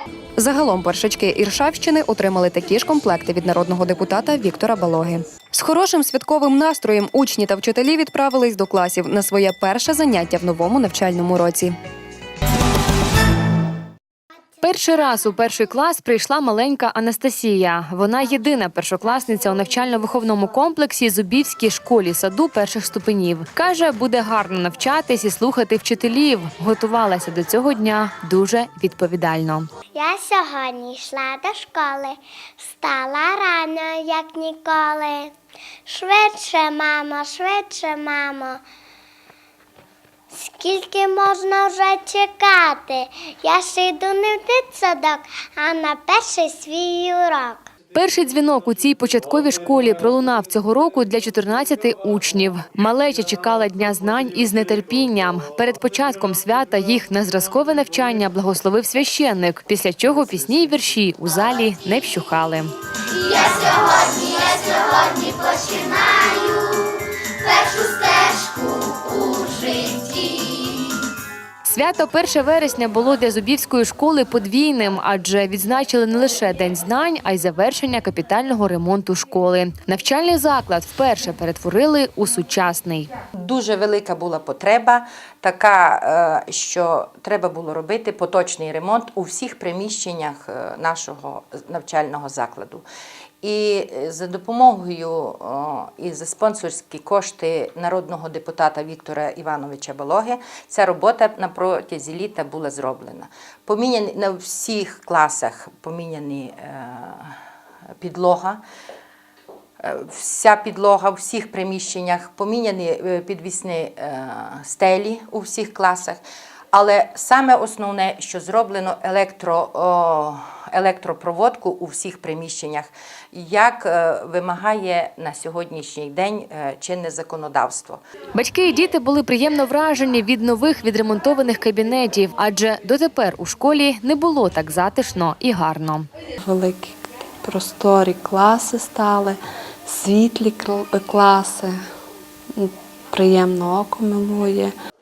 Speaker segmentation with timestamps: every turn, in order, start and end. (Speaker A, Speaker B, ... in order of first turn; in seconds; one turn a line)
Speaker A: 0.4-11.8
Speaker B: 14.6-29.7
Speaker C: 29.9-35.3
Speaker C: 35.9-38.6
Speaker C: 40.3-47.6
Speaker B: 47.9-62.7
Speaker B: 71.6-83.1
Speaker D: 83.4-92.8
Speaker D: 93.4-107.3
Speaker D: 108.0-108.6
Speaker D: 109.8-128.0
Speaker B: 128.3-136.1
Speaker E: 136.4-136.9
Speaker E: 137.4-141.8
Speaker E: 142.6-144.7